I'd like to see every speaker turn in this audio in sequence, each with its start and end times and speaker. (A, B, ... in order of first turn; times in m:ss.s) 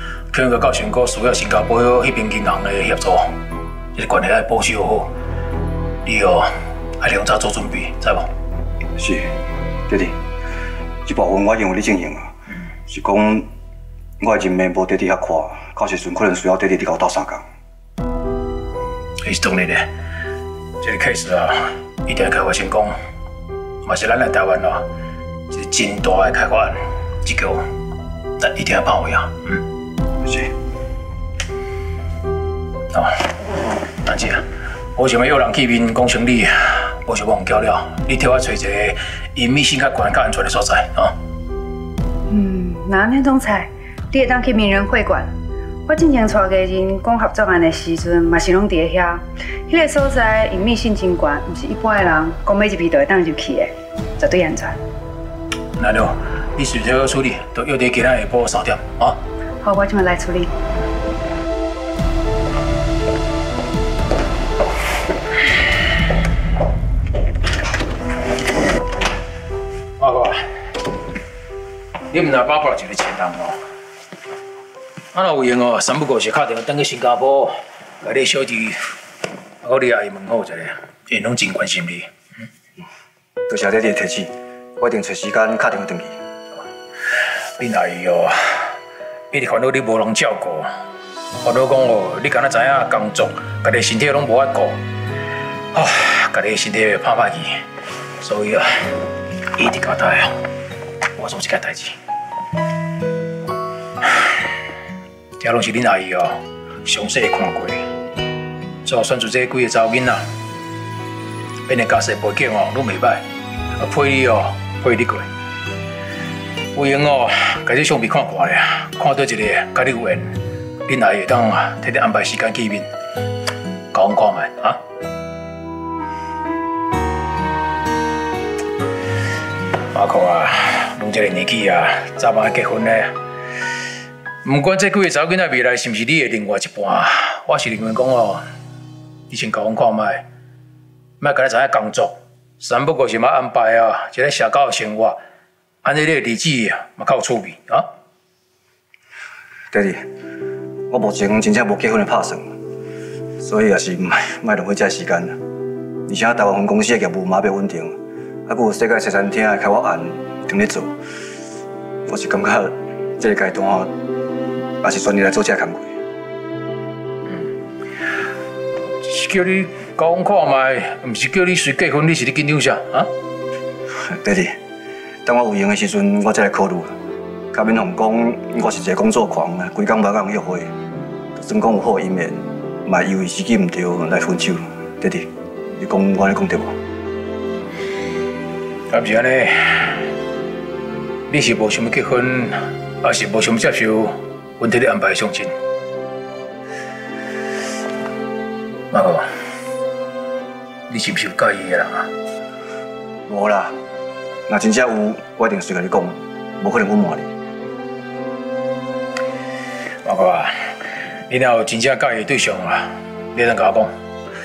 0:00.3-0:03.3 A
0:03.9-0:05.1 A
0:06.0-0:08.3 A
0:09.0-0:09.3 B
0:09.9-0:10.2 B
0:11.0-0:12.3 B
0:12.9-0:13.5 B
0:14.2-0:17.5 B
0:19.2-0:19.9 A
0:20.8-0:23.0 A
0:23.8-0:24.9 A
0:25.5-0:27.6 A
0:28.4-0:29.6 A
0:30.2-0:30.5 B
0:34.0-0:34.4 A
0:35.0-0:41.1 A
0:42.3-0:45.3 C
0:45.9-0:54.8 C
0:55.8-0:59.2 A
0:59.6-1:00.5 C
1:10.0-1:10.4 A
1:12.1-1:13.6 A
1:15.1-1:18.8 A
1:19.6-1:22.1 A
1:23.5-1:26.2 B
1:27.6-1:28.8 A
1:29.3-1:30.7 A
1:31.4-1:34.8 A
1:35.7-1:37.6 A
1:38.2-1:38.8 A
1:39.6-1:40.3 A
1:41.2-1:42.0 A
1:45.4-1:47.8 A
1:48.8-1:50.2 A
1:51.7-1:53.2 A
1:53.8-1:55.3 A
1:56.7-2:02.9 A
2:03.9-2:04.8 A
2:09.9-2:13.1 A
2:14.4-2:18.4 A
2:19.3-2:20.2 A
2:21.2-2:25.2 A
2:25.8-2:27.9 A
2:29.7-2:30.1 B
2:30.9-2:32.6 B
2:33.4-2:35.4 B
2:36.1-2:41.0 B
2:42.0-2:43.9 B
2:44.8-2:46.0 B
2:49.0-2:53.1 A
2:53.9-2:54.6 B
2:55.2-2:57.0 B
2:57.5-3:00.7 B
3:01.3-3:06.8 B
3:08.9-3:10.0 A
3:11.3-3:15.5 A
3:18.9-3:19.3 A
3:20.9-3:22.1 A
3:23.3-3:23.8 B
3:24.5-3:27.3 B
3:30.0-3:30.5 A
3:31.3-3:33.9 A